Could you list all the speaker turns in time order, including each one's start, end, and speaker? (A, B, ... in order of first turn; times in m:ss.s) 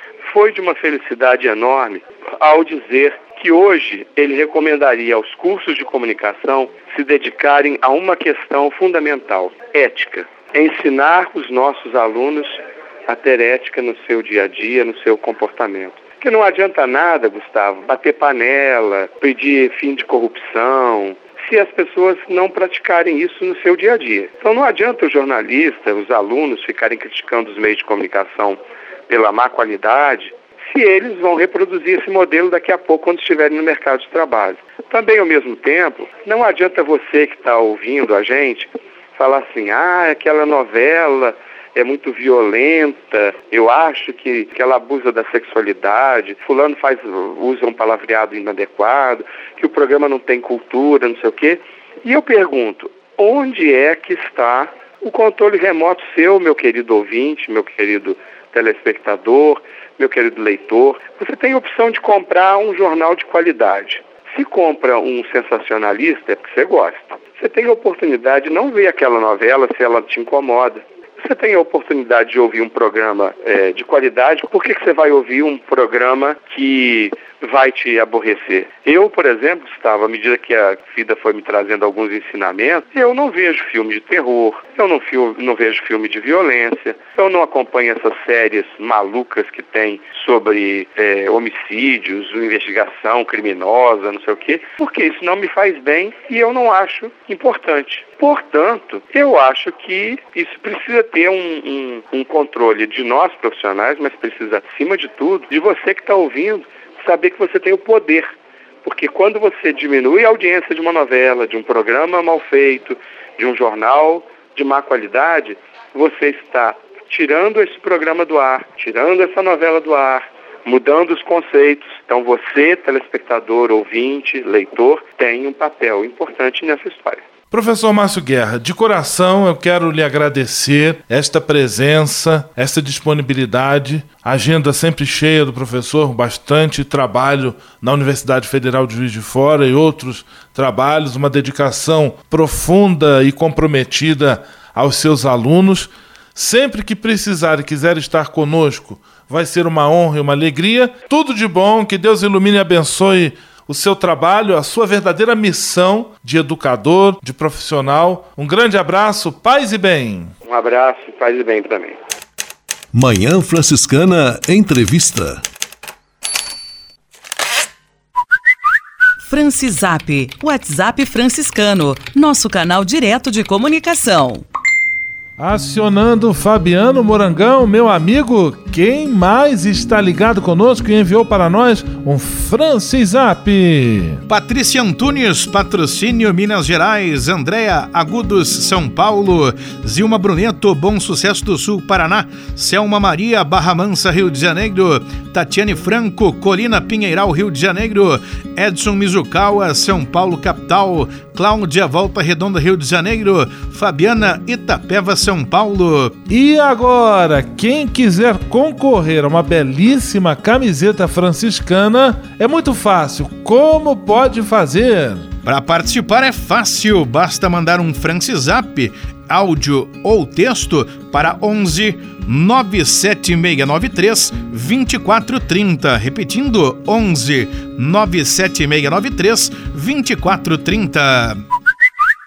0:00.2-0:28.6 A
0:29.1-1:48.3 A
1:48.8-2:07.2 A
2:07.5-2:40.3 B
2:40.5-2:42.0 A
2:42.9-2:45.4 C
2:49.2-2:54.4 D
2:55.4-3:04.2 B
3:04.3-3:26.2 E
3:26.3-3:35.3 B
3:35.4-3:51.4 E